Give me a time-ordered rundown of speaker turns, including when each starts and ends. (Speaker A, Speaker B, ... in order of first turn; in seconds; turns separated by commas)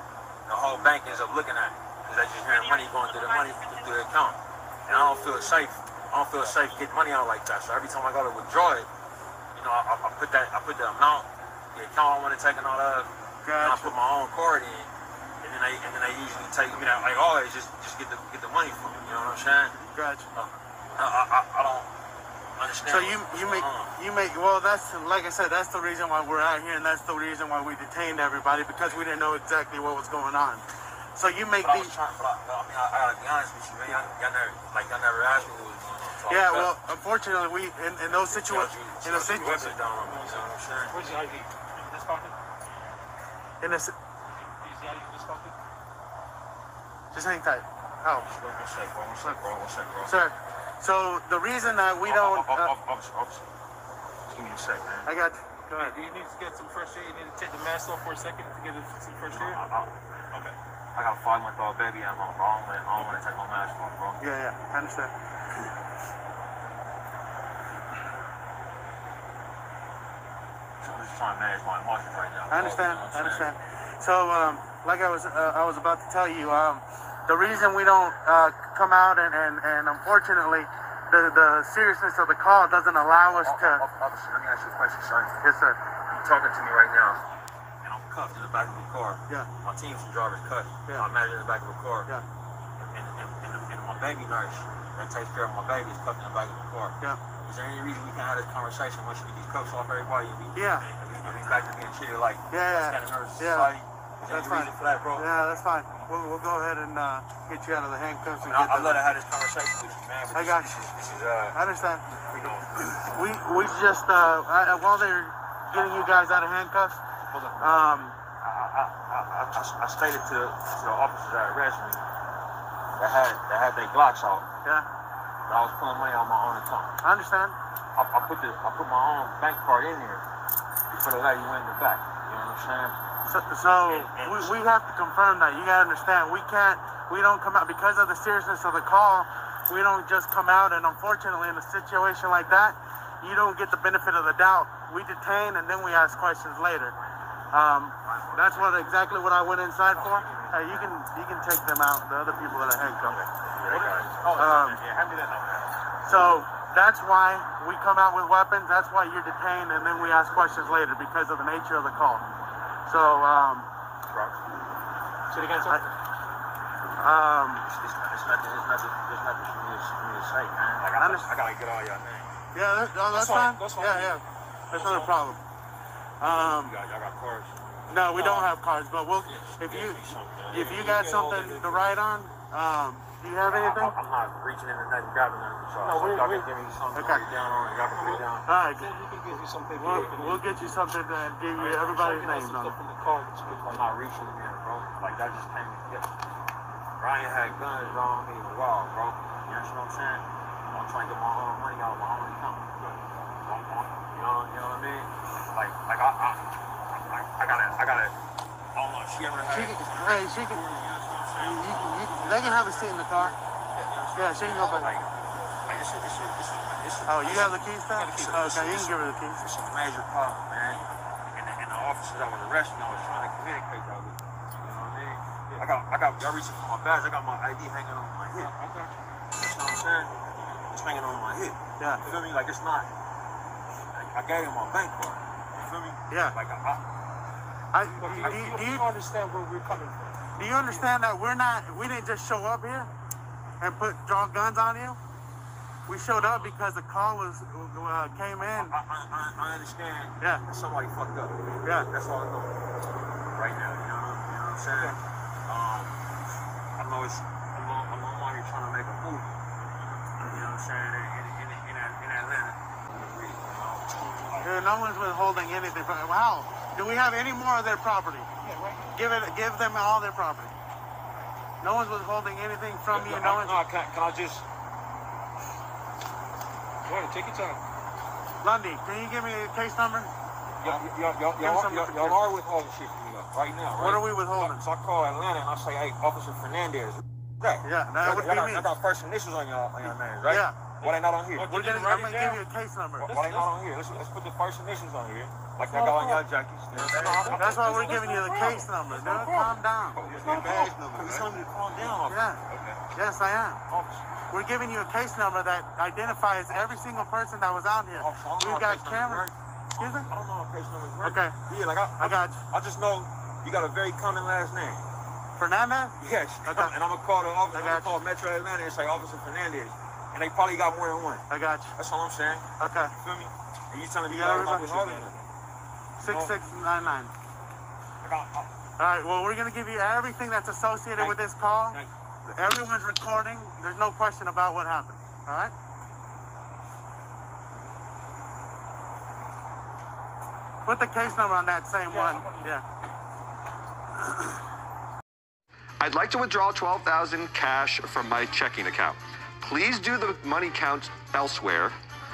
Speaker A: 0.5-8.9, Speaker A: 9.5-14.9, Speaker B: 13.4-13.9, Speaker A: 15.4-19.8, Speaker B: 19.9-20.3, Speaker A: 20.3-21.9, Speaker A: 22.6-23.9, Speaker B: 22.9-31.9, Speaker A: 31.6-36.7, Speaker B: 36.2-39.8, Speaker A: 38.1-41.2, Speaker C: 39.5-42.4, Speaker B: 43.6-43.9, Speaker C: 44.6-45.5, Speaker B: 47.1-48.2, Speaker A: 48.2-50.2, Speaker B: 50.0-52.7, Speaker A: 52.0-53.4, Speaker A: 54.3-55.1, Speaker B: 55.0-56.0, Speaker C: 55.8-59.6, Speaker A: 59.3-59.9, Speaker A: 60.9-64.2, Speaker B: 64.2-65.1, Speaker A: 70.8-73.5, Speaker B: 72.5-83.8, Speaker A: 83.3-85.4, Speaker B: 85.4-85.8, Speaker A: 86.1-87.2, Speaker A: 87.8-92.1, Speaker A: 92.8-105.3, Speaker B: 100.5-100.9, Speaker B: 102.5-103.7, Speaker B: 104.3-109.0, Speaker A: 108.4-111.6, Speaker B: 110.3-110.9, Speaker B: 111.5-112.1, Speaker A: 112.2-112.8, Speaker B: 112.7-117.0, Speaker A: 115.7-116.4, Speaker A: 117.3-117.7, Speaker B: 117.6-118.1, Speaker A: 118.4-122.0, Speaker A: 123.0-124.5, Speaker A: 125.5-126.9, Speaker B: 127.0-127.5, Speaker A: 128.0-130.2, Speaker A: 130.9-133.0, Speaker B: 133.2-146.9, Speaker A: 133.7-134.6, Speaker B: 147.5-153.2, Speaker A: 148.0-148.9, Speaker A: 149.9-150.9, Speaker A: 153.1-155.8, Speaker C: 153.6-154.4, Speaker B: 154.3-154.8, Speaker B: 156.0-162.2, Speaker B: 162.8-163.7, Speaker A: 164.1-164.4, Speaker C: 165.3-165.9, Speaker B: 167.0-167.7, Speaker A: 167.6-172.3, Speaker B: 170.9-171.3, Speaker B: 172.5-175.4, Speaker C: 173.1-175.2, Speaker B: 176.2-176.8, Speaker A: 176.2-177.6, Speaker B: 177.9-183.9, Speaker C: 178.1-178.5, Speaker A: 179.3-180.8, Speaker C: 180.6-182.0, Speaker A: 183.5-188.5, Speaker C: 185.8-186.5, Speaker B: 186.9-187.2, Speaker C: 187.9-190.8, Speaker B: 188.4-188.9, Speaker B: 189.7-192.8, Speaker C: 191.6-193.9, Speaker A: 193.7-196.1, Speaker A: 197.0-208.2, Speaker A: 208.7-215.1, Speaker B: 209.5-210.6, Speaker B: 211.4-213.3, Speaker B: 214.1-215.0, Speaker A: 215.6-228.5, Speaker B: 217.0-219.4, Speaker C: 218.0-218.3, Speaker C: 228.3-228.9, Speaker A: 229.3-232.9, Speaker B: 231.8-232.0, Speaker A: 233.9-236.8, Speaker B: 236.1-236.3, Speaker B: 237.7-238.9, Speaker C: 237.9-240.9, Speaker B: 240.3-242.9, Speaker B: 243.6-245.0, Speaker B: 245.9-248.7, Speaker A: 246.1-246.5, Speaker A: 248.4-252.5, Speaker B: 251.6-251.9, Speaker A: 253.3-256.0, Speaker B: 254.7-255.0, Speaker A: 256.8-259.4, Speaker A: 260.1-264.5, Speaker B: 264.4-268.3, Speaker C: 268.4-268.9, Speaker B: 268.9-270.5, Speaker B: 271.6-273.6, Speaker A: 272.9-274.4, Speaker C: 276.8-277.6, Speaker B: 278.4-280.1, Speaker A: 280.6-291.5, Speaker B: 281.4-282.2, Speaker B: 283.8-284.6, Speaker B: 287.6-288.7, Speaker B: 290.3-290.6, Speaker C: 290.8-292.4, Speaker B: 291.4-293.1, Speaker A: 293.0-297.6, Speaker C: 293.0-293.5, Speaker C: 295.6-301.2, Speaker B: 297.3-300.7, Speaker A: 299.9-302.8, Speaker B: 302.1-303.6, Speaker C: 303.7-304.0, Speaker B: 304.3-310.1, Speaker A: 307.9-314.8, Speaker B: 311.0-311.4, Speaker B: 312.0-312.4, Speaker B: 315.4-316.7, Speaker A: 316.0-325.1, Speaker B: 317.5-317.9, Speaker B: 321.3-321.7, Speaker B: 322.6-322.9, Speaker B: 324.1-325.0, Speaker C: 324.5-325.1, Speaker A: 326.0-326.3, Speaker B: 326.0-327.1, Speaker A: 328.0-328.5, Speaker B: 328.8-335.5, Speaker B: 340.6-342.6, Speaker C: 341.9-342.5, Speaker D: 345.8-351.8